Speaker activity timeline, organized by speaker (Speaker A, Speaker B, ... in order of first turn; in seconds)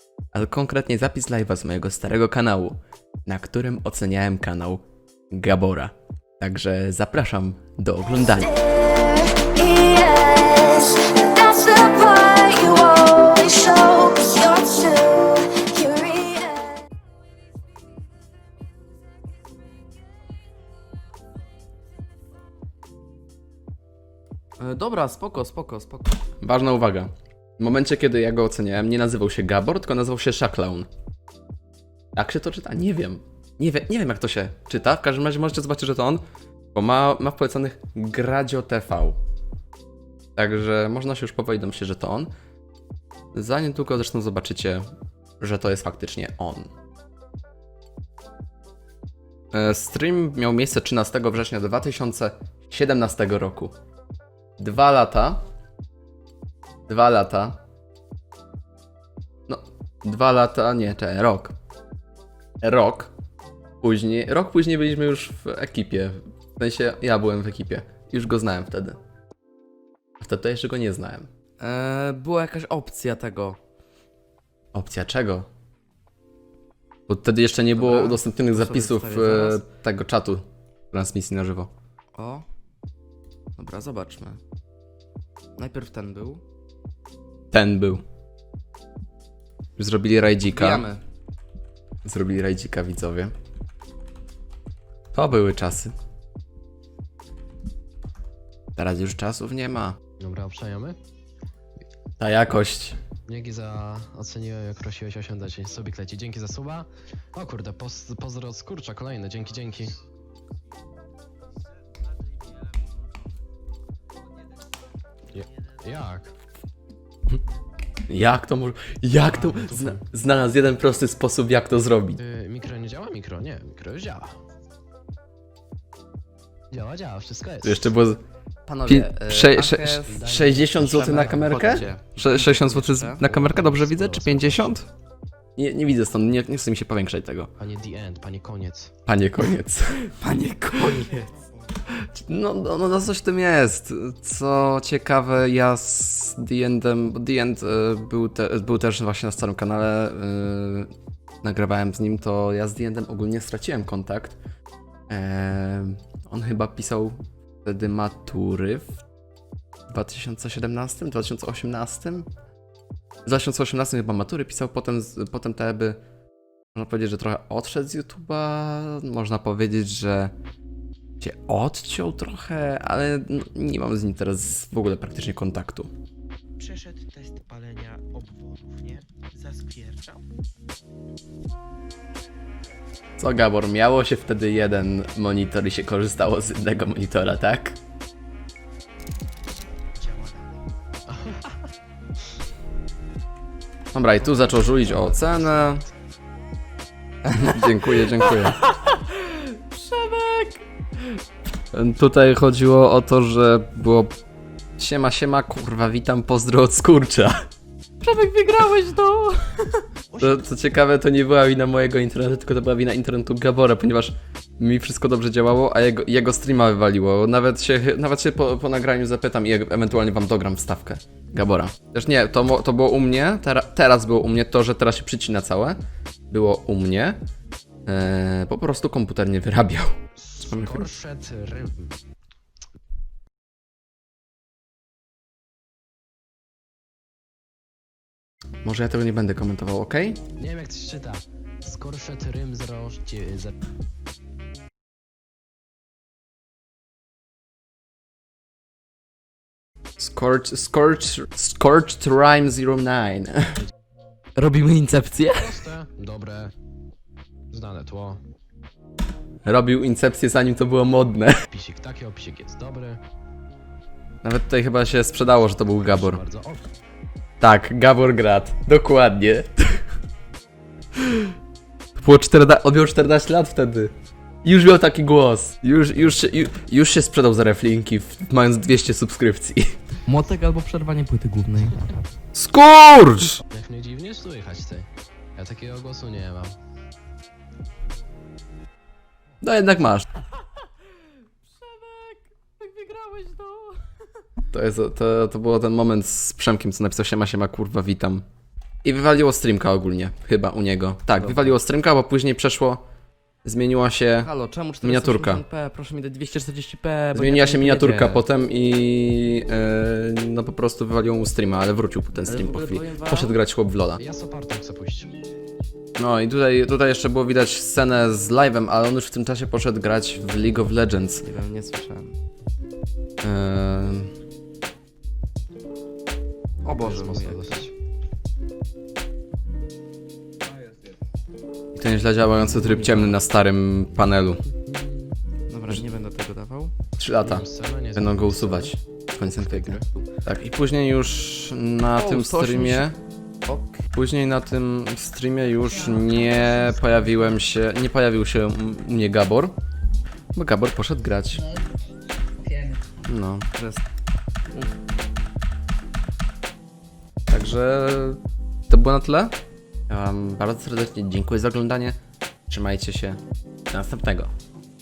Speaker A: 0.3-8.7, 26.4-30.9, 32.1-36.2, 36.7-39.2, 40.4-42.3, 43.3-44.8, 45.4-46.7, 49.5-53.7, 54.6-55.4, 56.9-57.6, 59.5-61.5, 62.6-63.1, 63.8-69.0, 70.2-71.3, 74.7-75.5, 77.1-81.7, 87.5-88.0, 89.8-90.8, 92.0-93.3, 95.1-95.9, 98.8-100.0, 102.2-103.0, 118.1-122.2, 127.6-128.2, 128.8-134.8, 135.6-137.5, 139.1-140.0, 141.9-150.9, 151.4-154.4, 155.1-159.0, 159.9-162.3, 163.2-166.0, 166.7-170.3, 171.2-175.9, 183.2-187.8, 193.9-195.8, 197.3-198.6, 201.7-204.2, 204.8-207.4, 210.2-225.8, 226.3-227.2, 227.9-230.0, 238.6-240.2, 250.0-253.6, 259.4-261.4, 264.2-266.2, 267.4-269.8, 272.0-273.9, 274.4-279.7, 282.3-283.4, 289.4-290.1, 294.5-298.2, 298.8-302.8, 303.4-304.3, 304.8-305.4, 307.1-314.0, 316.0-321.2, 323.2-324.1, 331.8-334.4, 337.0-342.9, 343.9-349.5, 350.3-351.6, 353.0-353.5, 357.3-359.3, 359.9-362.0, 362.5-363.2, 363.7-364.3
Speaker B: 8.7-16.8
Speaker C: 8.8-9.7, 10.7-11.4, 14.8-16.2, 176.6-180.3, 189.9-190.7
Speaker D: 24.6-26.1, 71.6-73.6, 77.7-79.6, 82.1-82.5, 83.6-84.4, 85.6-86.4, 90.4-91.0, 128.7-130.2, 130.9-133.2, 140.0-141.3, 197.9-200.6, 208.0-209.8, 230.5-230.9, 254.3-255.6, 280.1-281.9, 291.5-293.8, 301.2-301.6, 304.2-308.2, 312.3-313.3, 321.2-322.2, 326.6-327.6, 332.4-333.2, 335.5-336.7, 339.7-340.0, 341.9-342.9, 343.4-343.8, 353.5-353.8
Speaker E: 100.2-101.0, 103.3-110.0, 115.3-116.3, 119.2-120.0, 122.2-124.3, 126.7-127.9, 130.1-131.9, 133.2-134.8, 137.6-138.9, 191.1-191.5, 194.2-195.8, 230.2-231.9, 240.4-243.5, 255.2-256.5, 257.5-258.2, 261.5-263.0, 265.5-266.7, 283.5-286.5, 314.0-315.1, 326.7-327.7, 337.2-338.7